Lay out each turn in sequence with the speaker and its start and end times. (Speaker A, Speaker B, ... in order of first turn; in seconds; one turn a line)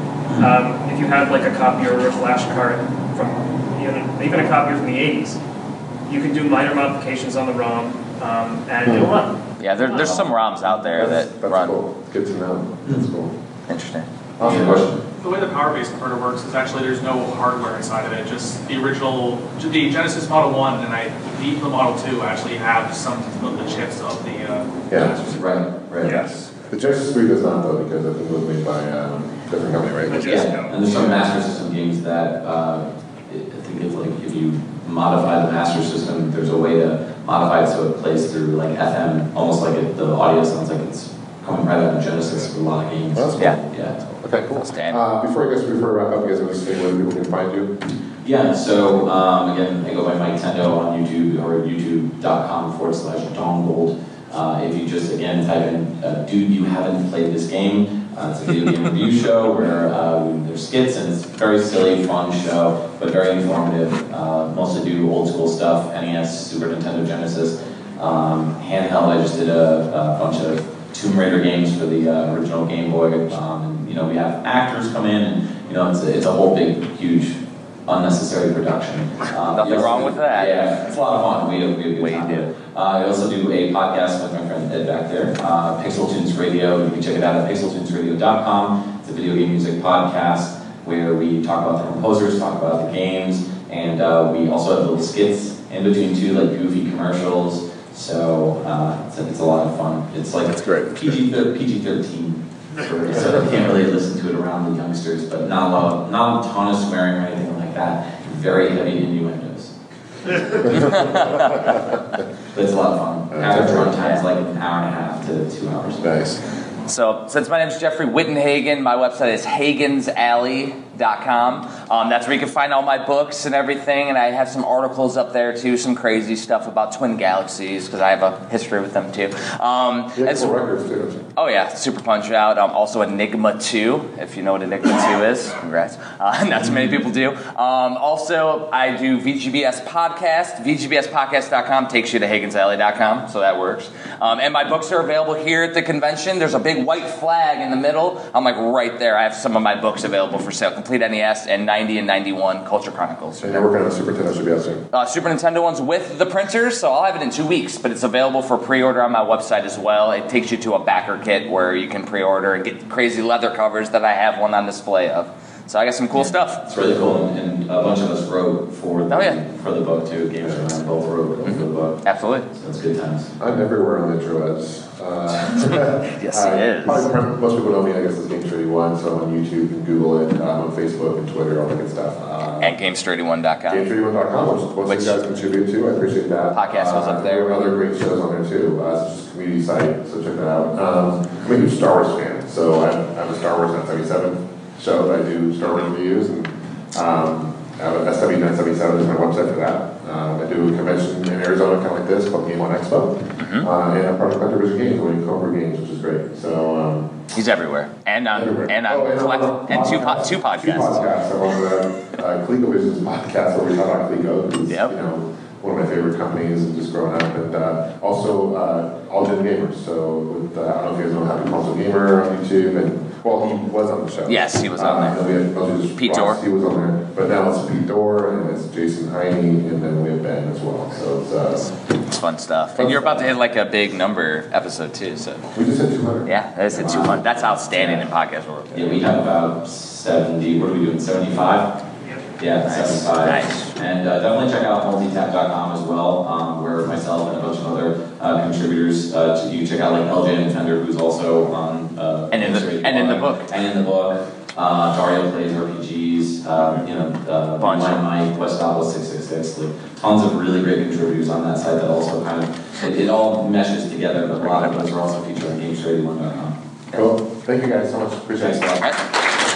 Speaker A: 0.3-0.6
Speaker B: 0.4-5.4
Speaker B: 6.1-10.3
Speaker C: 8.8-9.1
Speaker D: 9.6-11.8
Speaker C: 10.9-13.3
Speaker D: 13.7-14.6
Speaker C: 14.4-15.0
Speaker A: 14.4-14.8
Speaker E: 15.2-25.4
Speaker A: 25.3-26.2
Speaker B: 26.1-26.4
Speaker C: 26.7-30.4
Speaker B: 30.0-31.2
Speaker A: 30.2-44.0
Speaker C: 43.1-47.7
Speaker D: 44.6-45.0
Speaker A: 48.2-109.7
Speaker D: 79.5-80.6
Speaker D: 82.0-82.5
Speaker C: 100.5-101.2
Speaker C: 102.8-103.5
Speaker C: 110.6-111.8
Speaker A: 110.8-111.4
Speaker D: 110.8-111.7
Speaker A: 112.5-116.1
Speaker C: 113.3-113.9
Speaker C: 116.0-116.4
Speaker D: 116.8-130.6
Speaker C: 130.2-131.2
Speaker D: 131.3-153.6
Speaker C: 153.4-154.8
Speaker D: 154.9-166.7
Speaker A: 166.2-173.3
Speaker D: 169.1-169.4
Speaker D: 171.4-172.5
Speaker C: 173.4-182.8
Speaker D: 175.5-177.1
Speaker D: 182.6-183.9
Speaker C: 183.7-207.1
Speaker D: 184.8-185.2
Speaker D: 186.5-187.5
Speaker D: 203.4-203.7
Speaker D: 207.3-211.0
Speaker C: 208.3-231.7
Speaker D: 224.3-225.2
Speaker D: 226.0-226.4
Speaker D: 232.1-235.4
Speaker C: 232.7-233.3
Speaker C: 235.5-238.0
Speaker D: 236.3-239.0
Speaker A: 238.7-241.7
Speaker A: 242.4-266.6
Speaker D: 242.6-243.8
Speaker D: 252.3-253.5
Speaker D: 256.6-256.9
Speaker D: 257.6-258.0
Speaker D: 264.4-264.8
Speaker C: 266.9-268.8
Speaker A: 268.4-268.7